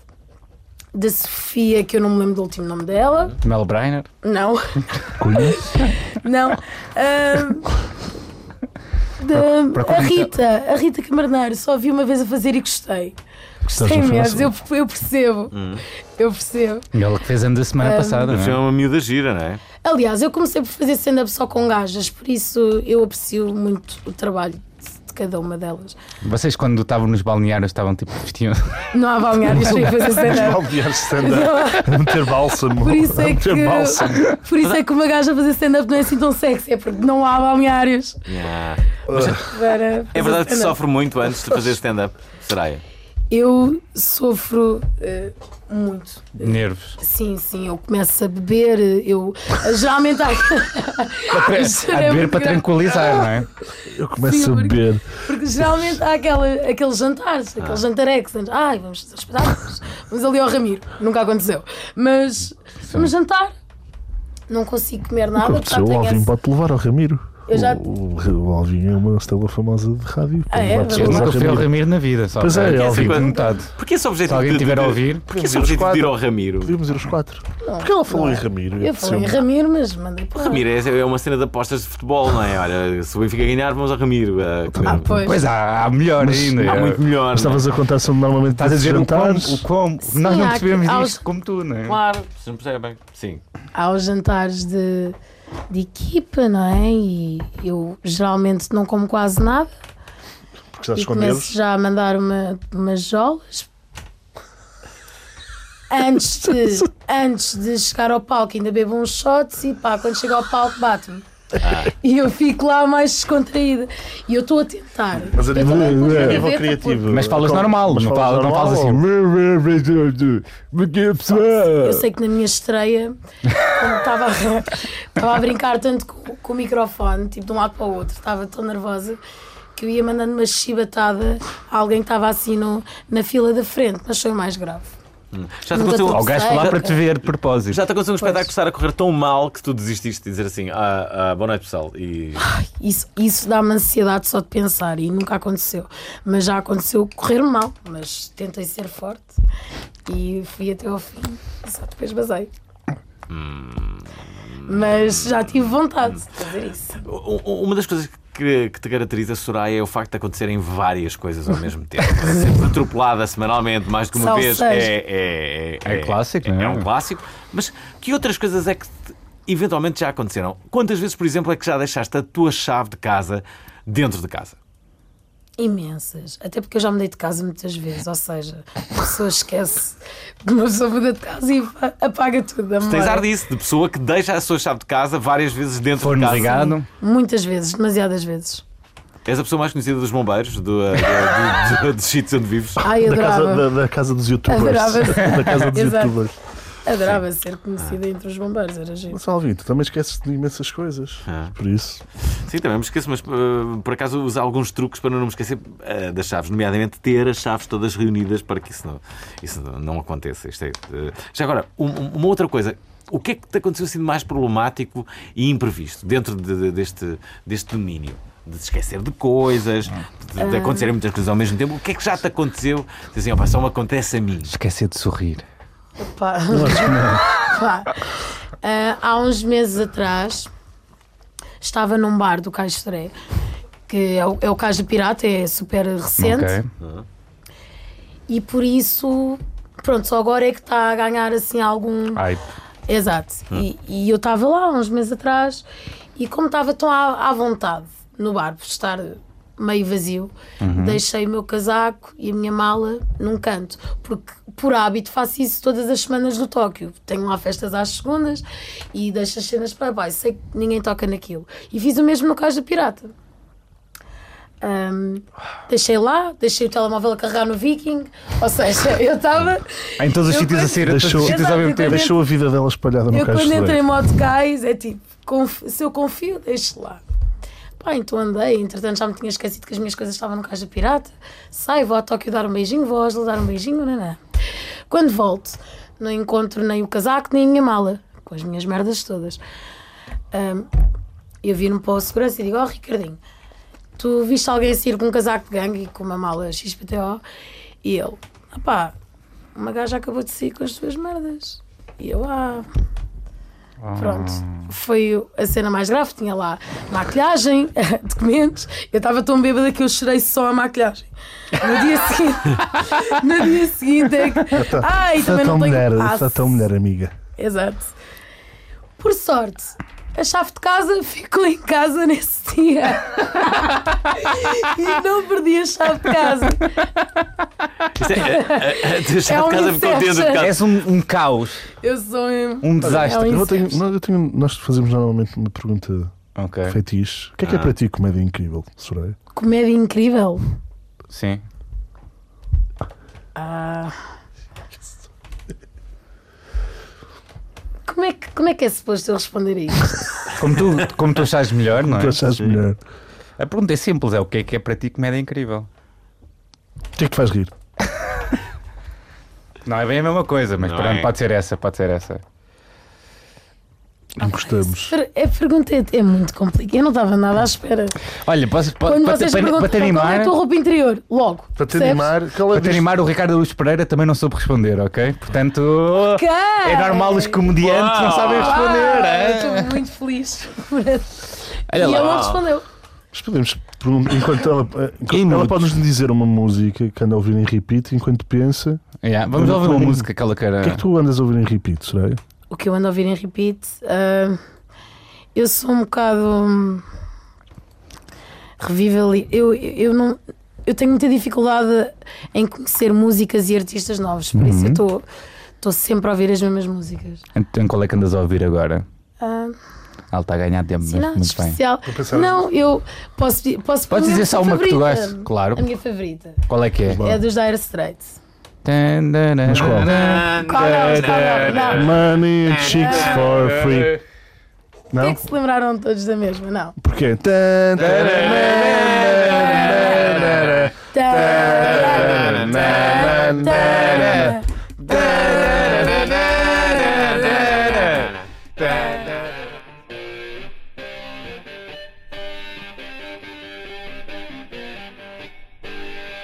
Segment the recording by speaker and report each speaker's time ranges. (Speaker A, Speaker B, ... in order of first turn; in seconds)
Speaker A: 0.9-3.4, 4.2-7.7, 9.2-15.5, 16.1-16.9, 17.8-18.3, 19.8-25.9, 28.9-32.2, 32.8-38.2, 39.4-40.8, 43.3-53.6, 54.1-63.5, 64.5-66.3, 67.5-67.8, 70.5-71.5, 77.6-80.6, 84.8-85.4, 90.0-91.2, 93.7-95.2, 95.7-99.7, 100.9-103.7, 105.9-111.2, 111.9-117.0, 121.8-129.2, 129.8-134.9, 135.7-137.0, 138.2-138.5, 142.4-149.3, 150.1-152.5, 154.6-157.0, 162.1-162.5, 164.1-164.9, 175.6-183.2, 186.3-188.6, 192.8-193.7, 194.5-196.2, 196.8-199.2, 220.4-220.9, 226.0-230.5, 231.6-233.1, 233.9-236.6, 238.3-242.2, 242.9-245.6, 246.2-263.1, 264.6-272.2, 273.1-277.0, 277.8-284.2, 284.9-289.4, 290.3-290.7, 291.4-293.2, 294.0-297.2, 297.8-298.9, 299.5-302.7, 303.9-316.6, 317.4-317.9, 319.0-326.8, 328.1-330.5, 331.8-333.8, 339.3-340.4, 343.3-344.0, 347.9-350.3, 364.2-368.0, 368.8-372.1, 376.0-377.5, 378.1-382.6, 392.5-394.4, 395.3-396.8, 398.6-405.0, 405.6-407.2, 409.2-409.6, 410.8-418.2, 420.3-421.9, 422.7-423.2, 425.0-426.8, 429.3-430.0, 430.9-436.1
Speaker B: 3.4-4.1, 9.3-10.3, 16.9-18.6, 26.2-28.7, 29.5-30.0, 46.4-47.0, 51.3-53.5, 70.9-73.7, 74.2-75.2, 85.2-87.0, 88.6-92.0, 116.1-116.4, 117.1-122.0, 136.1-137.8, 165.8-166.8, 186.0-186.9, 224.5-225.4, 236.2-236.7, 242.2-242.4, 250.6-251.0, 270.0-272.0, 303.8-304.6, 330.4-331.7, 332.6-333.4, 336.4-336.8, 341.1-341.4, 350.4-352.2, 353.4-355.7, 359.6-362.2, 368.2-370.3, 372.5-379.7, 381.7-382.3, 385.1-385.7, 389.0-390.8, 404.3-404.8, 407.4-408.8, 410.1-411.6, 413.9-415.6, 416.5-417.0, 418.6-421.4, 434.9-436.0, 437.4-437.9
Speaker C: 5.2-5.7, 13.7-14.5, 30.1-34.3, 39.1-39.4, 53.8-55.8, 65.3-71.7, 72.3-73.3, 75.3-79.4, 84.7-85.1, 86.2-89.7, 100.7-101.5, 115.3-119.0, 192.9-196.3, 199.1-202.0, 226.5-227.2, 270.8-273.8, 314.5-317.1, 332.8-336.1, 336.6-339.1, 351.8-352.8, 357.0-357.5, 364.1-364.9, 371.6-372.9, 383.1-390.1, 390.6-392.2, 411.9-412.5, 416.8-417.2, 419.4-419.9, 421.7-424.0, 424.9-425.2, 426.8-434.3
Speaker D: 15.5-15.8, 18.3-19.6, 38.3-39.5, 40.1-42.8, 72.5-76.8, 80.4-85.0, 86.6-87.7, 91.9-93.4, 111.6-111.9, 135.3-136.8, 137.7-142.4, 153.3-154.1, 154.7-155.5, 157.0-174.6, 182.8-186.6, 189.2-192.8, 201.3-201.6, 202.3-224.5, 236.8-237.0, 327.9-330.7, 337.4-337.7, 360.6-361.1, 377.6-378.6, 381.9-382.4, 419.6-421.9, 428.3-429.3, 435.5-435.8